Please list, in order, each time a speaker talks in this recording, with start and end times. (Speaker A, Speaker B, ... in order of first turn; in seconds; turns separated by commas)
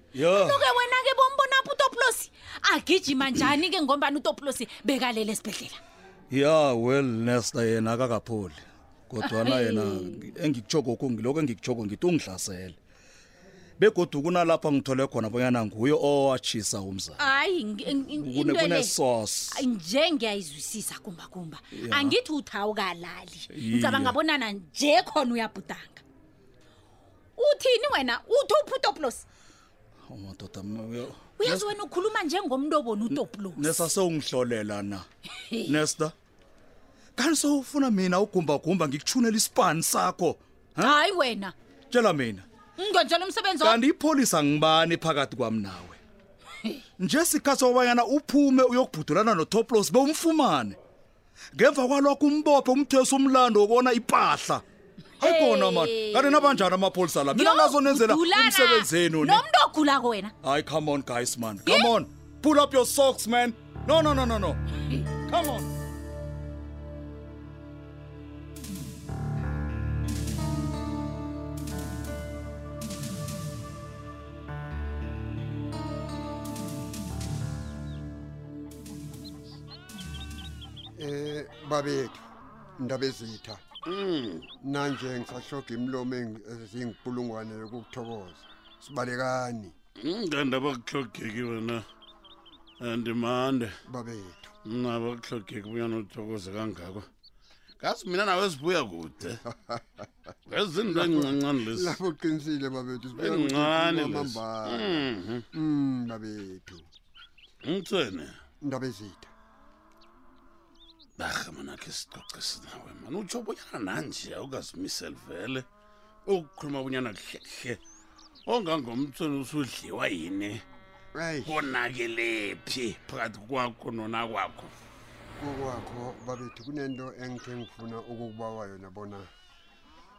Speaker A: 0.1-0.7, Speaker B: 0.3-5.8, Speaker A: 6.3-12.8, Speaker B: 9.2-10.3, Speaker A: 13.8-17.3, Speaker B: 17.2-19.0, Speaker A: 18.0-19.6, Speaker B: 19.5-26.0, Speaker A: 21.7-22.2, Speaker A: 23.5-24.2, Speaker B: 27.4-29.2, Speaker A: 30.1-31.8, Speaker B: 31.4-33.9, Speaker A: 33.1-35.1, Speaker B: 35.5-35.7, Speaker A: 35.7-36.1, Speaker A: 37.2-41.0, Speaker B: 40.8-41.5, Speaker A: 41.9-42.5, Speaker B: 42.8-43.8, Speaker A: 43.6-46.0, Speaker A: 47.0-50.8, Speaker A: 51.5-54.6, Speaker B: 55.2-56.7, Speaker A: 55.2-59.4, Speaker B: 57.3-60.3, Speaker A: 60.4-65.7, Speaker B: 61.6-61.9, Speaker C: 81.0-82.2, Speaker C: 82.8-83.6, Speaker D: 83.9-84.5, Speaker C: 84.6-89.8, Speaker D: 90.0-91.8, Speaker D: 92.8-93.8, Speaker C: 93.9-94.5, Speaker D: 94.7-97.1, Speaker D: 97.8-99.4, Speaker C: 99.5-100.0, Speaker D: 100.5-102.0, Speaker C: 100.9-106.9, Speaker D: 103.2-105.5, Speaker D: 107.6-108.4, Speaker C: 108.6-109.3, Speaker D: 111.2-115.7, Speaker D: 116.2-117.8, Speaker D: 118.5-120.6, Speaker C: 121.1-121.6, Speaker D: 121.4-124.8, Speaker C: 125.4-129.3